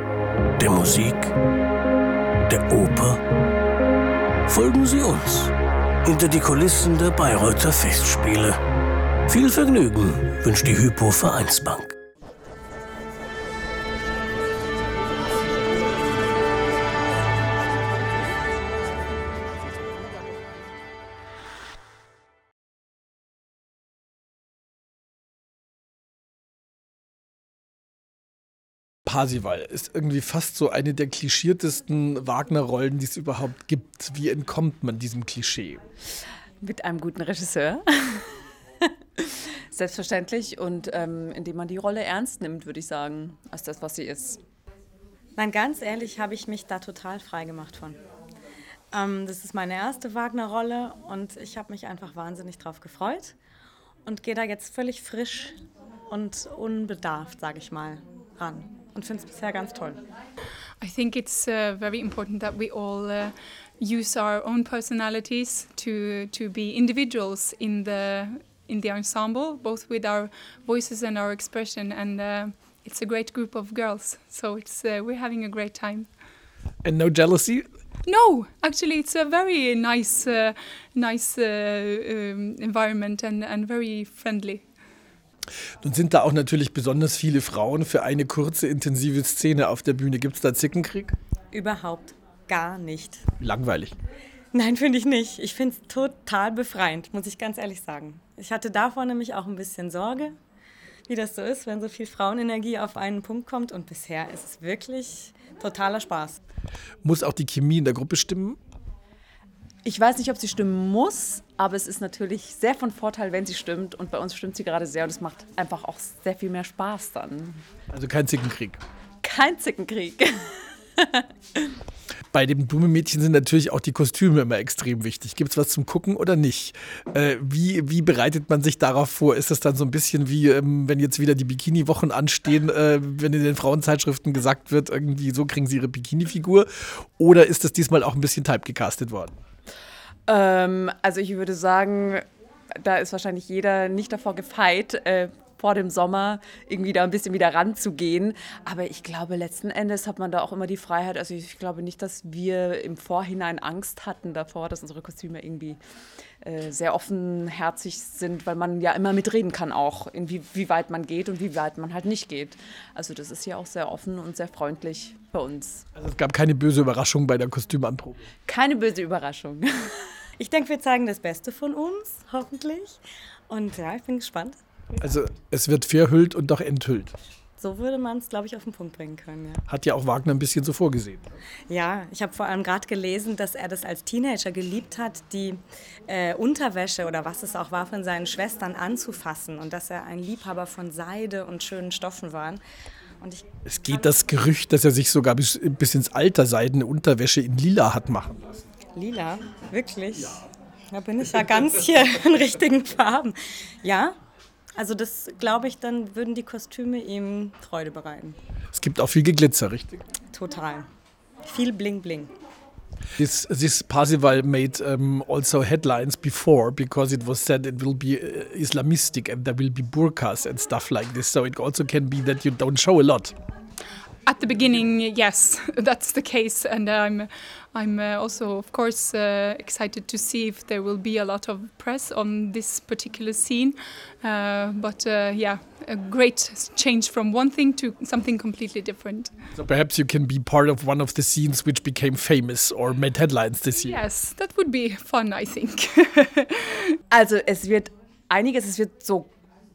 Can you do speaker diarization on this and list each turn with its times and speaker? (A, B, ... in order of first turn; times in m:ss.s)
0:00.6-0:01.3 A
0:02.5-0:03.2 A
0:04.5-0:08.6 A
0:09.3-0:11.9 A
0:29.0-0:35.8 B
0:36.6-0:38.3 C
0:39.2-0:44.4 C
0:45.4-0:48.0 D
0:48.9-0:53.3 D
0:54.0-0:55.5 D
0:56.1-1:00.0 D
1:00.8-1:16.1 E
1:16.8-1:17.7 B
1:18.0-1:24.6 E
1:25.8-1:31.2 B
1:31.5-1:33.2 D
1:33.4-1:34.0 B
1:34.5-1:40.3 D
1:41.1-1:46.4 D
1:47.0-1:48.6 B
1:49.8-1:57.6 C
1:57.9-1:58.8 B
1:59.2-2:01.6 C
2:02.3-2:19.3 B
2:20.3-2:22.2 C
2:22.8-2:35.8 C
2:36.4-2:45.8 C
2:46.0-2:48.2 B
2:48.4-2:50.1 C
2:50.4-2:54.6 D
2:55.0-2:57.1 B
2:57.6-2:59.6 D
2:59.7-3:01.2 B
3:01.7-3:12.6 D
3:13.2-3:13.5 D
3:13.6-3:18.6 B
3:18.9-3:24.1 D
3:24.8-3:28.4 D
3:28.7-3:30.0 B
3:30.3-3:30.9 D
3:31.4-3:32.3 D
3:33.2-3:43.3 B
3:44.2-3:59.3 E
3:59.5-4:04.0 B
4:03.8-4:06.9 E
4:07.1-4:09.3 C